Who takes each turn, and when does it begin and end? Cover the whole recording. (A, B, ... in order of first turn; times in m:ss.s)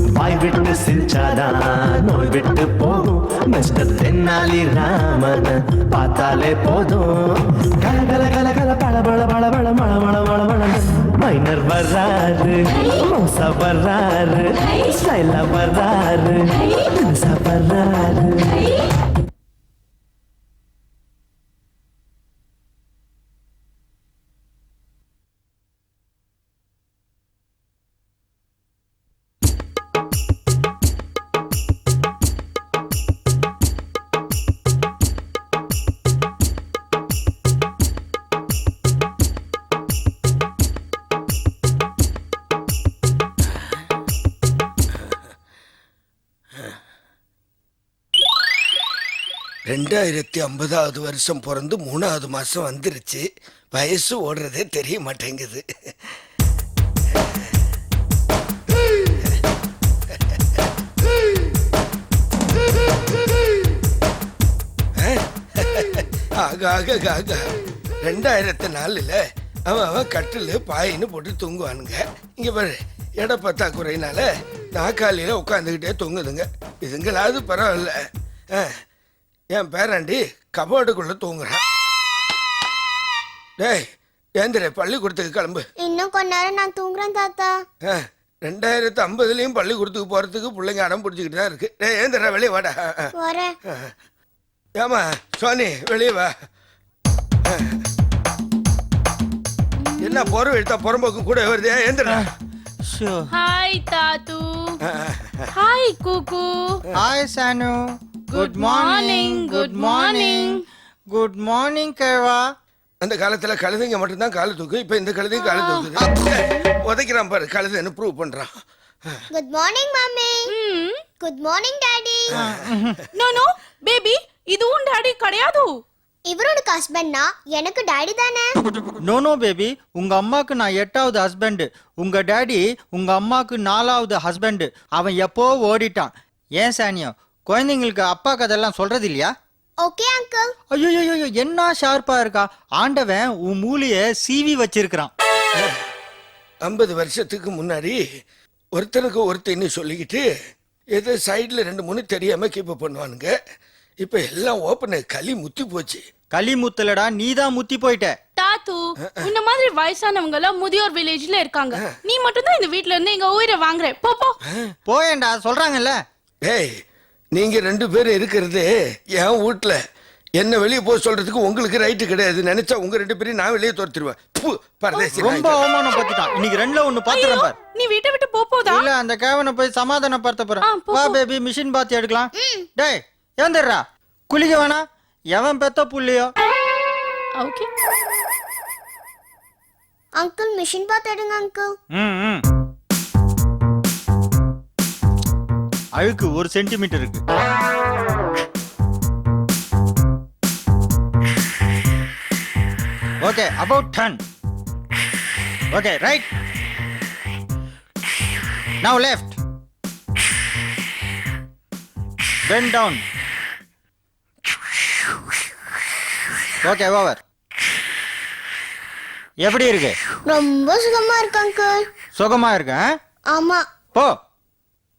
0:00.2-0:18.7 A
0:49.7-0:56.2 B
1:00.1-1:00.7 B
1:05.0-1:07.5 B
1:08.0-1:18.0 B
1:19.5-1:21.6 B
1:23.6-1:23.8 B
1:24.4-1:25.6 B
1:25.8-1:27.6 C
1:27.9-1:33.1 B
1:33.2-1:33.5 C
1:33.7-1:33.9 B
1:34.8-1:36.3 B
1:37.5-1:37.8 B
1:39.8-1:40.4 D
1:40.0-1:42.3 B
1:42.9-1:43.3 E
1:43.3-1:44.8 D
1:44.8-1:45.5 B
1:45.5-1:46.8 D
1:47.0-1:47.8 E
1:48.3-1:50.6 D
1:48.3-1:50.6 E
1:51.1-1:52.4 E
1:53.0-1:58.6 B
1:55.4-1:55.9 D
1:59.3-2:00.5 C
2:00.5-2:01.0 D
2:01.2-2:02.3 C
2:02.3-2:02.6 B
2:02.4-2:03.0 E
2:03.2-2:05.7 D
2:06.3-2:08.5 C
2:09.0-2:19.3 E
2:19.8-2:20.5 C
2:20.7-2:25.1 E
2:26.6-2:28.0 B
2:28.8-2:30.2 B
2:30.9-2:33.4 B
2:34.0-2:36.0 B
2:36.3-2:38.2 E
2:38.4-2:44.4 D
2:44.5-2:44.7 B
2:44.9-2:46.0 E
2:46.4-2:46.7 B
2:47.3-2:49.8 B
2:50.4-2:55.6 B
2:55.2-2:57.5 E
2:57.1-2:58.8 D
2:58.7-3:04.8 E
3:00.6-3:01.2 D
3:02.4-3:02.7 C
3:05.3-3:06.3 E
3:07.4-3:07.7 D
3:10.2-3:11.7 C
3:12.0-3:12.4 E
3:16.0-3:17.2 E
3:23.2-3:24.2 E
3:25.7-3:26.3 E
3:28.8-3:29.4 E
3:32.5-3:33.0 E
3:36.6-3:37.2 E
3:39.4-3:40.0 E
3:40.3-3:41.9 C
3:42.2-3:42.9 E
3:43.3-3:43.6 C